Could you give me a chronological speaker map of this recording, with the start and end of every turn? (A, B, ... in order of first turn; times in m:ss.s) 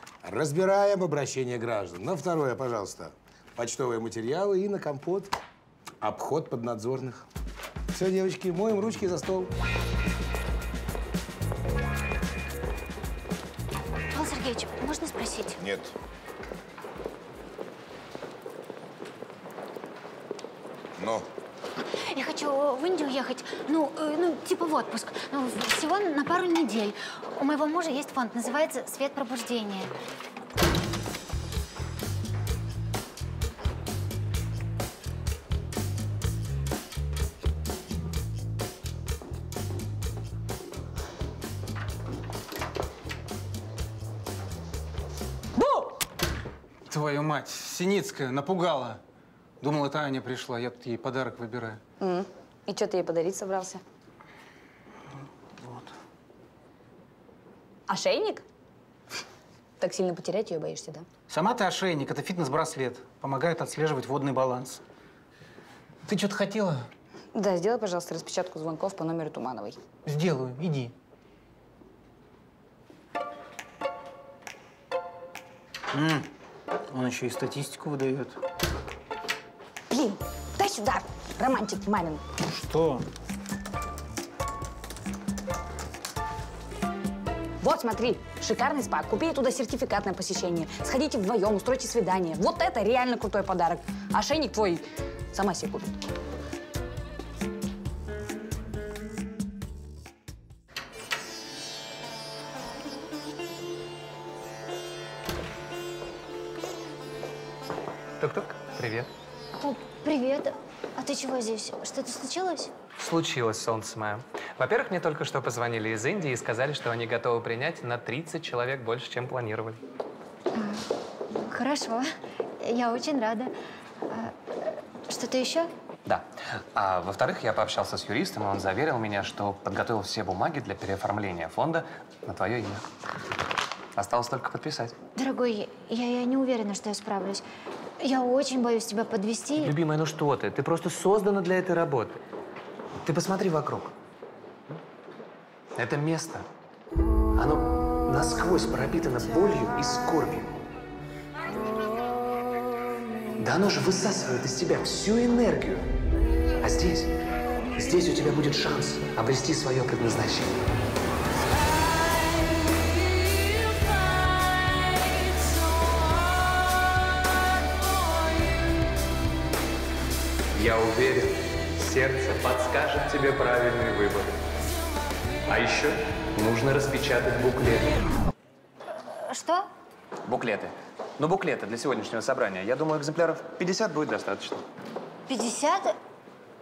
0:00.2-0:05.3 A
0:06.0-0:07.3 A
0:07.9-0:09.5 A
0:14.1-0:15.6 B
0:15.6-0:15.9 A
0:21.0-0:21.3 A
0:22.1-0:29.9 B
0:45.6-0:45.9 C
0:46.9-0:49.0 D
0:49.6-0:51.8 D
0:52.0-0:53.8 C
0:55.6-0:55.9 D
0:57.9-0:58.4 C
0:59.8-1:01.1 C
1:01.3-1:04.8 D
1:06.1-1:06.9 D
1:07.3-1:09.8 C
1:10.0-1:10.9 D
1:15.9-1:16.3 D
1:16.9-1:18.4 D
1:19.9-1:22.2 C
1:22.4-1:23.1 D
1:27.6-1:36.0 C
1:48.2-1:49.1 E
1:49.6-1:52.7 B
1:53.0-1:59.8 E
2:00.5-2:02.1 B
2:02.6-2:03.5 B
2:04.1-2:05.7 B
2:06.1-2:12.8 E
2:14.0-2:15.0 E
2:15.2-2:17.4 B
2:18.0-2:19.7 B
2:19.6-2:22.2 E
2:23.0-2:23.9 E
2:25.8-2:26.4 E
2:27.4-2:30.5 E
2:33.4-2:35.9 E
2:36.6-2:37.1 E
2:37.8-2:40.5 E
2:50.6-2:54.3 E
2:55.5-2:58.0 E
2:59.0-2:59.7 B
3:00.3-3:04.6 E
3:05.3-3:06.0 B